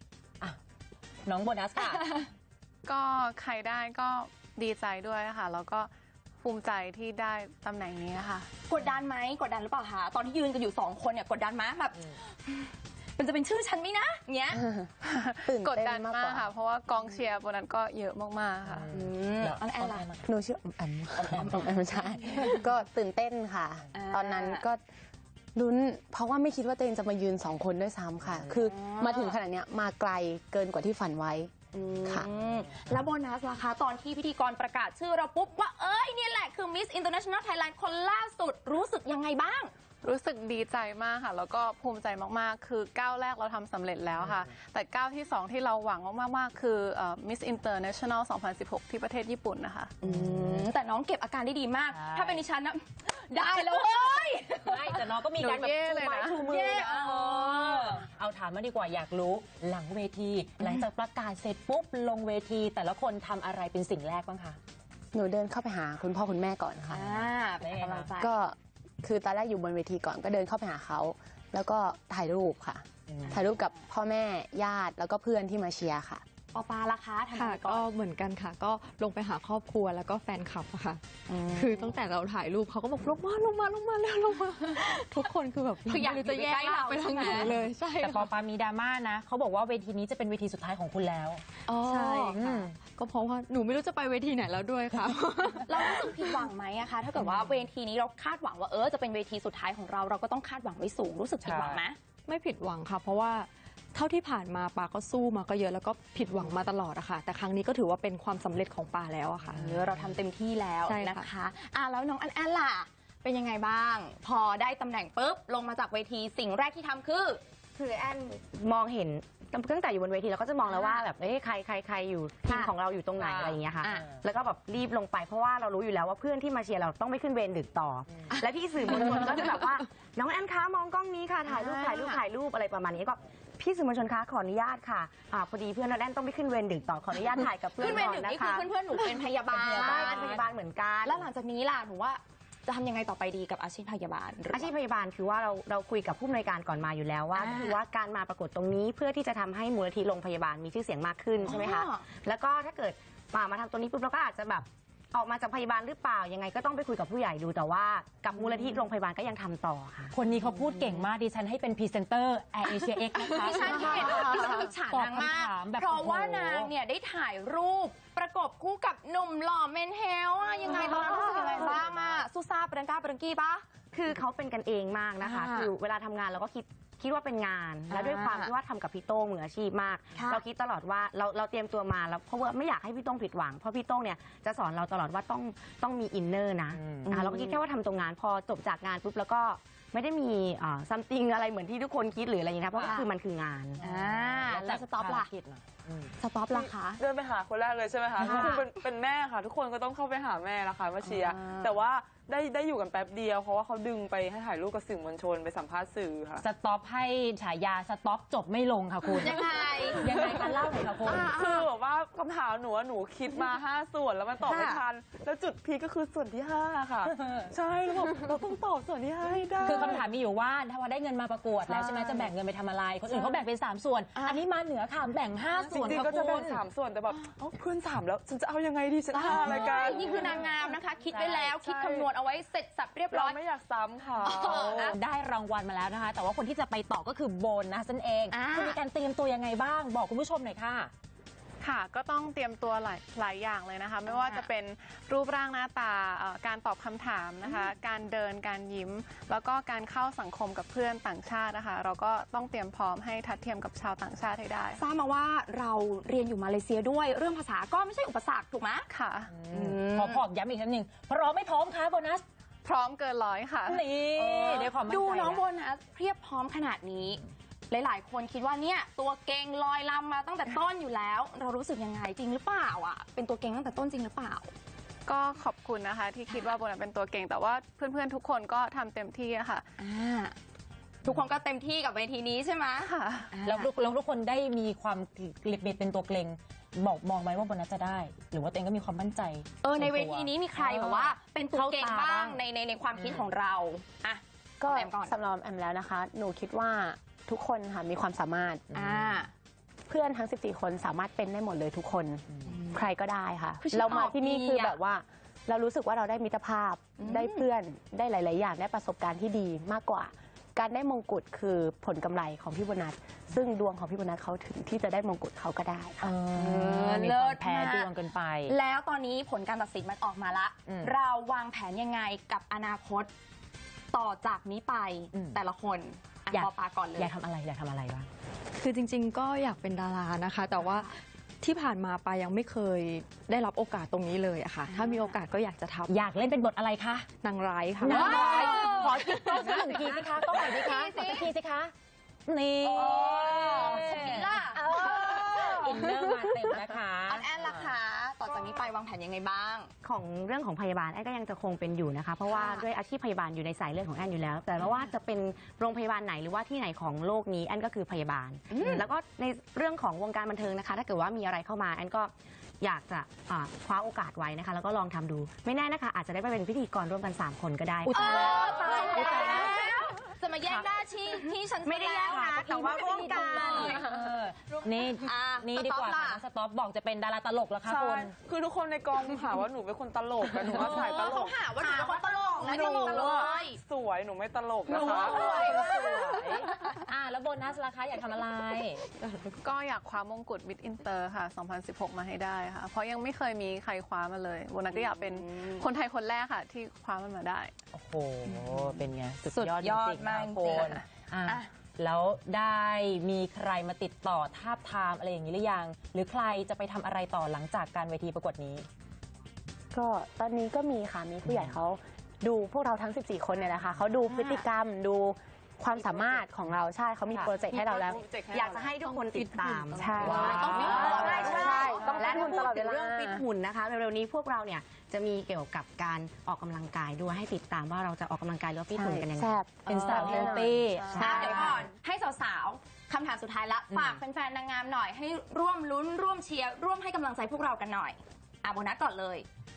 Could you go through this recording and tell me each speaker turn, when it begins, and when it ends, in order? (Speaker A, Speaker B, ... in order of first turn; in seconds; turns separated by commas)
Speaker A: 1.2-2.1, Speaker B: 2.8-5.9, Speaker B: 6.4-8.5, Speaker C: 8.7-14.7, Speaker B: 15.0-18.9, Speaker D: 15.4-16.4, Speaker A: 18.6-20.3, Speaker C: 18.9-20.1, Speaker D: 20.2-24.8, Speaker A: 21.1-21.7, Speaker C: 21.4-21.8, Speaker C: 23.9-24.6, Speaker D: 25.5-31.5, Speaker A: 28.3-28.5, Speaker C: 28.6-29.4, Speaker C: 31.7-39.7, Speaker B: 40.0-49.9, Speaker A: 44.2-44.5, Speaker C: 50.0-55.1, Speaker A: 50.0-50.6, Speaker A: 51.9-52.4, Speaker A: 54.6-64.6, Speaker B: 55.4-56.5, Speaker C: 56.5-58.0, Speaker C: 60.6-60.9, Speaker D: 65.1-67.0, Speaker C: 66.9-68.4, Speaker A: 67.6-68.1, Speaker D: 68.2-76.2, Speaker A: 73.1-73.4, Speaker C: 76.5-77.8, Speaker E: 77.3-88.3, Speaker C: 85.8-87.6, Speaker A: 87.4-91.4, Speaker C: 91.7-92.4, Speaker E: 91.7-96.4, Speaker A: 92.3-92.8, Speaker C: 95.7-102.0, Speaker A: 97.2-97.5, Speaker F: 101.4-101.8, Speaker E: 102.3-109.6, Speaker C: 109.4-117.4, Speaker A: 109.9-110.2, Speaker E: 110.9-111.3, Speaker G: 117.7-138.7, Speaker C: 120.6-121.0, Speaker C: 122.5-122.7, Speaker A: 123.2-123.6, Speaker C: 123.8-124.1, Speaker C: 128.9-129.4, Speaker C: 131.4-132.2, Speaker C: 137.8-140.4, Speaker G: 139.5-141.2, Speaker A: 139.7-140.4, Speaker C: 141.0-144.7, Speaker G: 144.5-160.1, Speaker C: 147.3-147.8, Speaker C: 151.4-152.0, Speaker A: 160.1-166.7, Speaker C: 163.1-173.6, Speaker G: 170.7-171.8, Speaker A: 171.5-171.7, Speaker G: 173.9-193.8, Speaker C: 175.2-175.7, Speaker C: 177.9-178.5, Speaker C: 180.1-180.4, Speaker A: 186.7-187.1, Speaker C: 187.0-187.6, Speaker C: 192.8-193.0, Speaker A: 193.8-196.1, Speaker C: 193.8-195.3, Speaker C: 196.2-197.0, Speaker F: 196.5-206.4, Speaker C: 198.2-198.7, Speaker A: 198.2-198.5, Speaker C: 201.0-201.7, Speaker A: 206.4-211.3, Speaker C: 209.2-210.4, Speaker F: 209.2-220.1, Speaker C: 211.0-211.7, Speaker C: 214.5-214.8, Speaker A: 217.0-217.5, Speaker A: 219.6-226.6, Speaker C: 221.7-222.3, Speaker C: 224.2-224.4, Speaker F: 225.5-230.5, Speaker C: 229.1-233.4, Speaker A: 231.1-231.5, Speaker F: 231.4-232.1, Speaker F: 233.1-235.0, Speaker C: 234.2-234.9, Speaker A: 234.8-240.9, Speaker C: 238.3-238.8, Speaker B: 241.6-254.8, Speaker C: 244.1-244.5, Speaker C: 247.4-247.7, Speaker C: 254.7-258.9, Speaker B: 258.9-259.3, Speaker A: 259.3-262.2, Speaker C: 259.5-260.2, Speaker B: 262.6-263.9, Speaker A: 263.6-265.4, Speaker C: 264.1-274.5, Speaker B: 275.1-279.6, Speaker C: 276.3-276.6, Speaker C: 279.8-280.4, Speaker C: 281.0-283.7, Speaker B: 282.8-283.3, Speaker A: 283.4-292.4, Speaker C: 289.6-295.1, Speaker A: 292.9-293.3, Speaker D: 294.6-298.6, Speaker A: 298.7-299.2, Speaker C: 298.7-299.3, Speaker D: 299.9-316.1, Speaker A: 302.3-302.6, Speaker C: 302.5-302.8, Speaker C: 303.6-304.8, Speaker C: 307.0-307.4, Speaker A: 316.0-318.5, Speaker C: 316.3-323.1, Speaker A: 320.7-320.9, Speaker C: 323.9-327.1, Speaker A: 325.1-325.4, Speaker A: 326.3-328.1, Speaker E: 328.6-335.9, Speaker A: 335.9-337.1, Speaker E: 337.2-339.1, Speaker A: 337.8-341.7, Speaker C: 337.8-341.3, Speaker A: 342.3-347.6, Speaker C: 342.6-346.1, Speaker C: 347.1-349.7, Speaker G: 349.8-369.4, Speaker C: 352.3-352.6, Speaker C: 358.5-358.9, Speaker E: 367.9-369.1, Speaker C: 367.9-373.9, Speaker A: 368.9-369.5, Speaker G: 371.6-373.9, Speaker A: 372.1-378.1, Speaker C: 374.5-376.2, Speaker F: 377.6-385.6, Speaker A: 380.4-381.1, Speaker C: 380.6-383.6, Speaker C: 384.7-386.8, Speaker A: 384.7-388.9, Speaker B: 389.4-397.5, Speaker C: 394.9-395.6, Speaker A: 397.7-408.6, Speaker C: 398.3-401.5, Speaker D: 409.7-418.0, Speaker A: 411.3-411.5, Speaker C: 414.1-414.4, Speaker F: 415.7-416.2, Speaker F: 417.1-422.2, Speaker G: 418.3-429.4, Speaker D: 419.8-423.2, Speaker A: 420.0-421.5, Speaker C: 420.0-422.4, Speaker D: 428.7-431.5, Speaker A: 429.6-431.6, Speaker C: 430.9-439.3, Speaker A: 433.7-434.0